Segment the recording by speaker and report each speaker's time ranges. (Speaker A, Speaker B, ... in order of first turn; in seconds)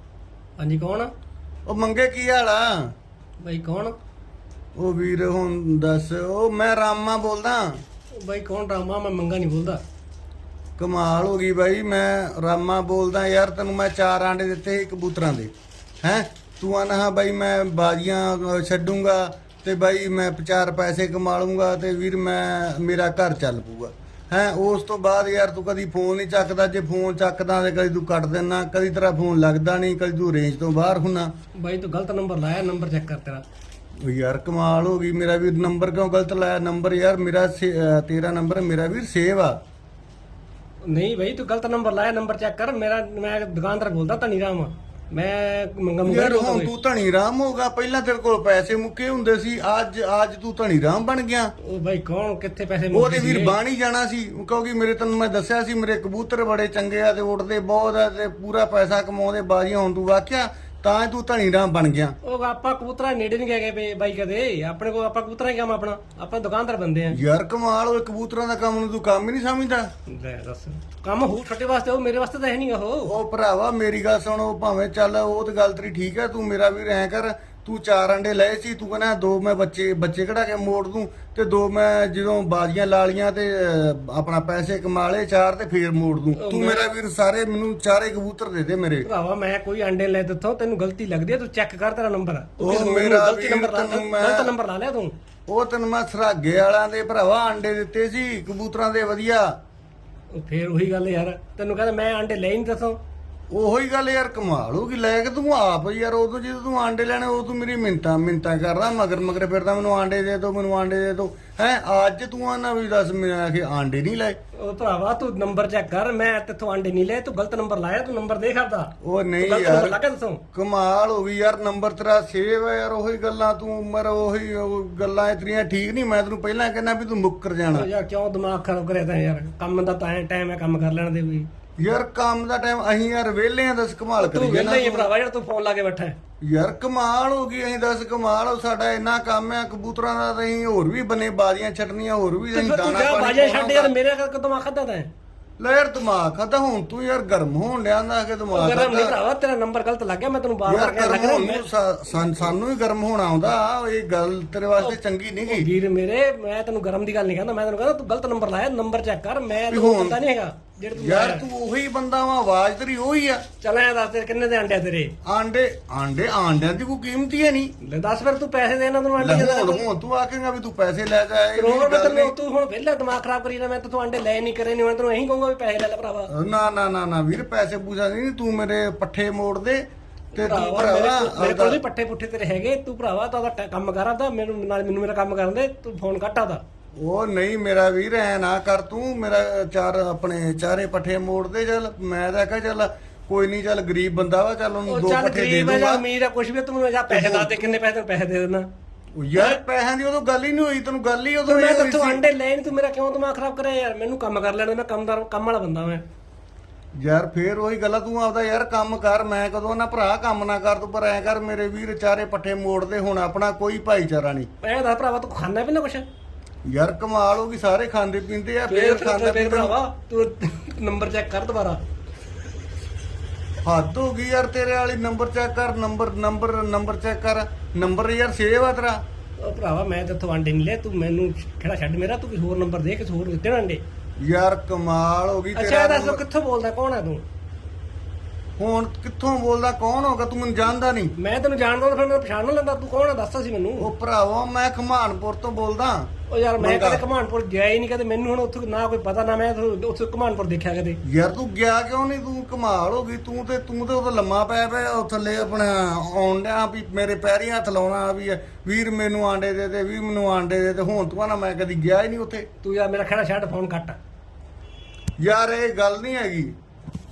Speaker A: 0.6-1.1, 3.4-3.9, 8.2-9.8, 31.6-33.4, 40.9-46.7, 51.6-53.5, 62.2-67.2, 70.1-73.1, 86.4-86.9, 89.0-95.1, 100.3-103.0, 114.6-120.4, 127.7-131.5, 134.2-136.2, 142.5-145.1, 148.5-151.6, 155.5-161.4, 163.6-165.1, 167.8-169.8, 171.6-176.3, 180.3-186.6, 194.9-198.7, 201.4-206.0, 214.6-216.1, 218.7-221.8, 229.4-233.8, 235.6-237.2, 241.2-243.9, 246.3-251.0, 262.6-264.0
Speaker B: 1.7-2.7, 4.8-7.8, 10.8-15.5, 16.0-31.3, 34.0-39.6, 46.0-51.5, 52.9-62.1, 67.1-69.9, 73.0-89.1, 92.6-94.5, 95.5-99.5, 103.5-114.4, 119.0-120.0, 120.5-127.9, 131.8-135.1, 136.4-143.9, 145.6-149.2, 150.7-155.7, 159.7-160.2, 161.0-163.4, 165.2-167.7, 169.2-172.3, 176.3-181.8, 187.0-196.0, 197.1-197.7, 199.2-202.2, 207.0-214.5, 216.7-219.7, 223.6-229.0, 234.2-236.2, 238.6-241.1, 243.8-247.0, 251.0-262.5, 265.2-266.5